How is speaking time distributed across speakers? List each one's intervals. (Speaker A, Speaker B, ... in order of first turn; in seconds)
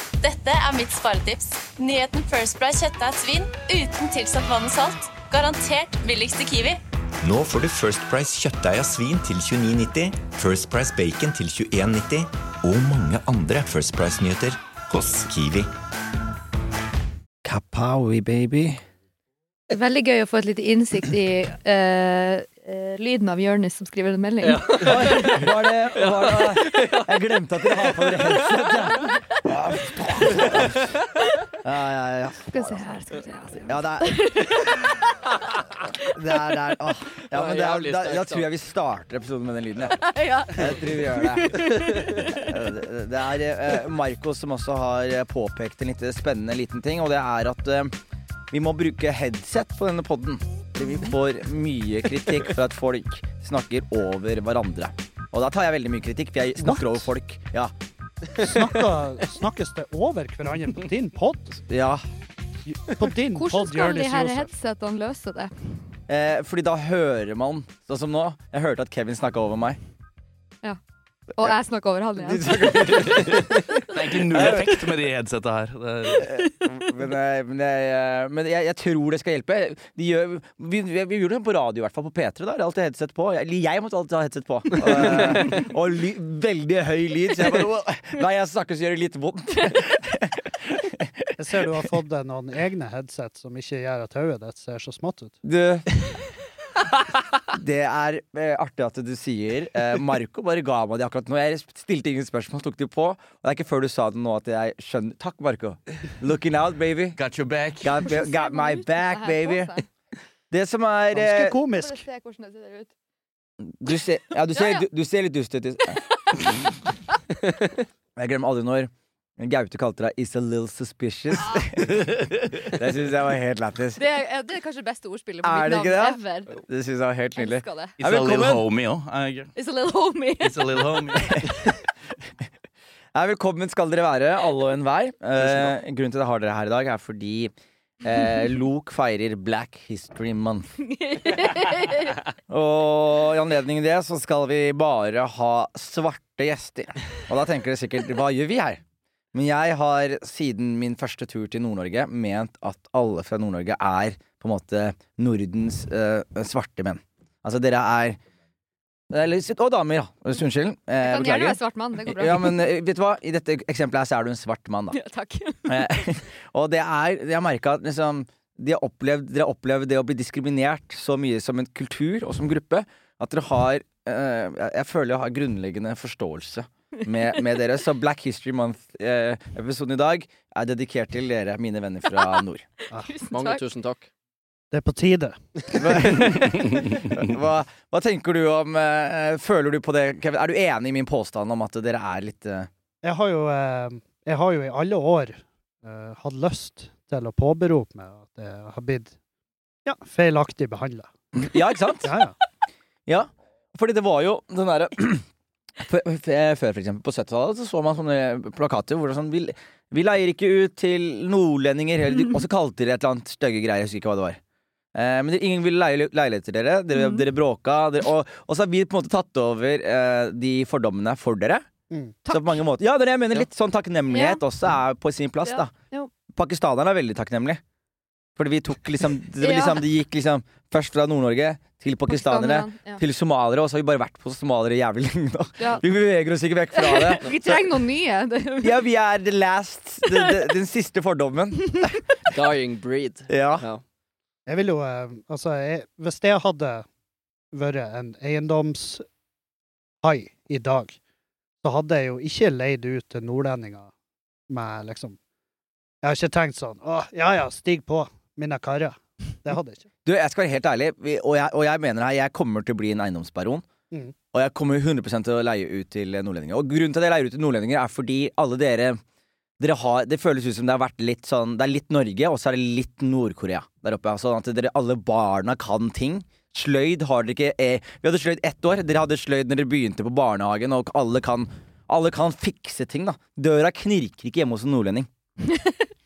Speaker A: 0.2-6.8
Speaker B: 7.2-15.7
Speaker C: 17.4-18.8, 24.8-30.9, 31.6-32.8, 33.7-34.6, 36.1-48.0, 48.5-57.7, 61.7-62.0, 66.1-69.8, 72.2-73.7, 74.3-74.8, 76.2-91.2, 95.4-95.9, 97.5-107.2, 107.8-109.7, 110.5-111.6, 113.6-116.0, 118.2-124.0, 125.4-128.7, 133.1-140.7, 142.5-148.8, 149.3-158.2, 159.1-165.0, 165.7-182.7, 185.7-192.7, 201.3-202.1, 203.1-205.2, 205.8-214.4, 214.9-221.7, 222.3-225.7, 226.3-227.6, 228.4-237.8, 238.6-242.0, 243.3-243.7, 260.1-263.7, 264.3-269.0, 269.6-285.1
Speaker D: 19.7-25.0, 32.5-35.2, 39.9-42.5, 63.4-65.7, 71.3-73.7, 108.0-109.9, 111.8-112.9, 114.5-114.8, 121.4-121.7, 124.0-126.5, 127.4-127.9, 129.6-130.9, 140.8-142.2, 161.0-162.6, 164.9-166.0, 183.0-183.6, 216.9-217.2, 222.2-222.6, 224.1-224.4, 225.4-226.1, 229.4-229.8, 232.1-233.0, 236.7-238.8, 240.1-240.3, 285.4-285.9
Speaker E: 24.4-25.4, 25.9-27.1, 37.3-38.5, 183.3-184.1, 242.3-243.8
Speaker F: 56.6-57.0, 58.4-61.6, 62.7-64.5, 91.4-95.4, 111.1-112.0, 184.7-186.3, 193.0-199.2, 199.8-201.1, 202.0-202.3, 244.5-246.9, 247.5-249.0, 250.0-251.0, 251.6-253.9, 254.5-255.2, 256.0-259.9
Speaker G: 73.4-76.3, 107.2-108.1, 128.0-129.5, 130.4-131.7, 135.4-135.7